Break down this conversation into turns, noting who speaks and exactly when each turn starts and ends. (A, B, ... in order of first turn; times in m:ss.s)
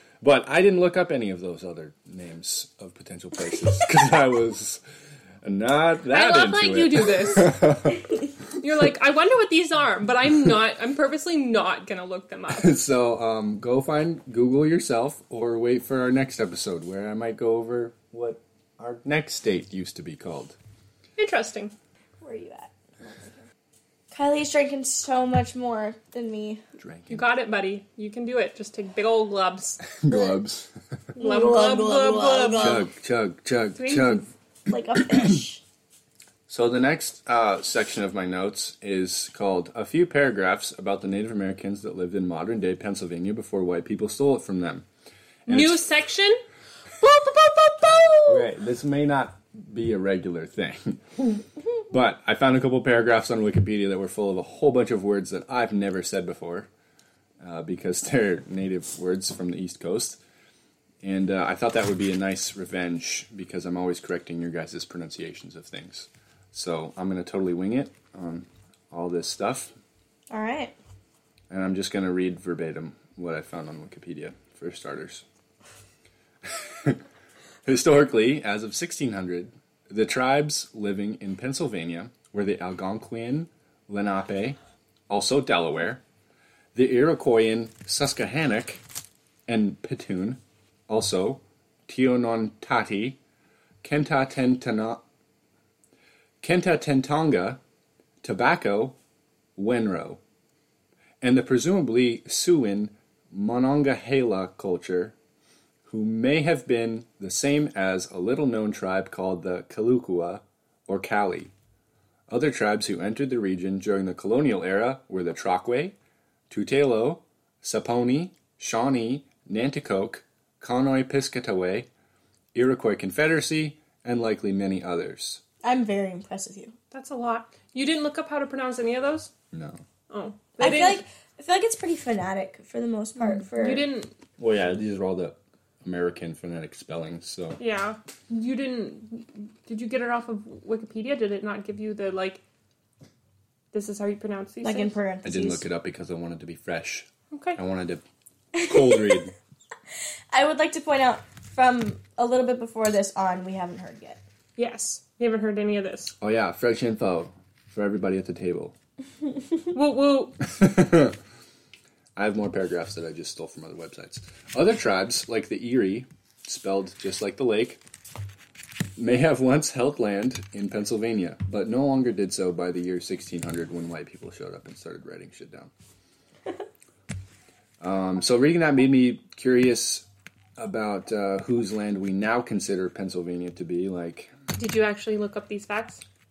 0:00.2-0:04.8 A
0:05.4-0:08.1 A
0:06.1-0:07.6 B
0:08.6-0:12.7 B
0:12.5-0:20.6 A
0:21.2-0:21.7 B
0:22.2-0:23.4 C
0:24.1-0:26.6 C
0:26.8-0:27.2 A
0:27.1-0:29.8 B
0:29.9-0:30.7 A
0:30.1-0:30.4 C
0:31.2-0:32.8 B
0:31.2-0:32.9 C
0:32.6-0:34.2 A
0:33.8-0:34.3 B
0:34.7-0:35.6 C
0:35.0-0:35.4 A
0:36.5-0:44.8 A
0:45.5-0:45.8 A
0:45.5-0:46.4 B
0:47.0-0:48.4 B
0:48.2-0:51.4 A
0:51.9-0:56.7 A
0:57.4-1:00.2 A
1:01.0-1:09.7 A
1:10.3-1:10.7 C
1:11.5-1:15.2 A
1:16.4-1:17.0 A
1:17.6-1:24.6 A
1:25.1-1:26.0 A
1:26.7-1:28.8 A
1:29.5-1:33.2 A
1:33.8-1:35.0 A
1:36.4-1:37.6 A
1:38.2-1:39.0 A
1:39.6-1:40.2 A
1:41.2-1:45.1 A
1:45.8-1:51.5 A
1:52.3-1:55.9 A
1:56.5-2:01.9 A
2:02.5-2:05.4 A
2:05.6-2:06.7 C
2:06.9-2:09.3 B
2:09.5-2:09.8 A
2:10.1-2:11.0 B
2:10.6-2:13.9 C
2:13.5-2:14.1 B
2:14.4-2:17.6 A
2:17.6-2:22.4 B
2:23.7-2:24.9 B
2:24.6-2:25.6 C
2:25.2-2:28.0 A
2:27.3-2:27.6 B
2:28.5-2:29.2 C
2:28.5-2:29.3 A
2:30.3-2:34.2 C
2:34.6-2:36.1 B
2:36.2-2:38.7 A
2:39.7-2:40.4 B
2:40.4-2:41.2 A
2:42.2-2:47.8 A
2:49.0-2:55.7 A
2:57.8-3:00.0 A
3:00.6-3:04.3 A
3:04.5-3:06.0 B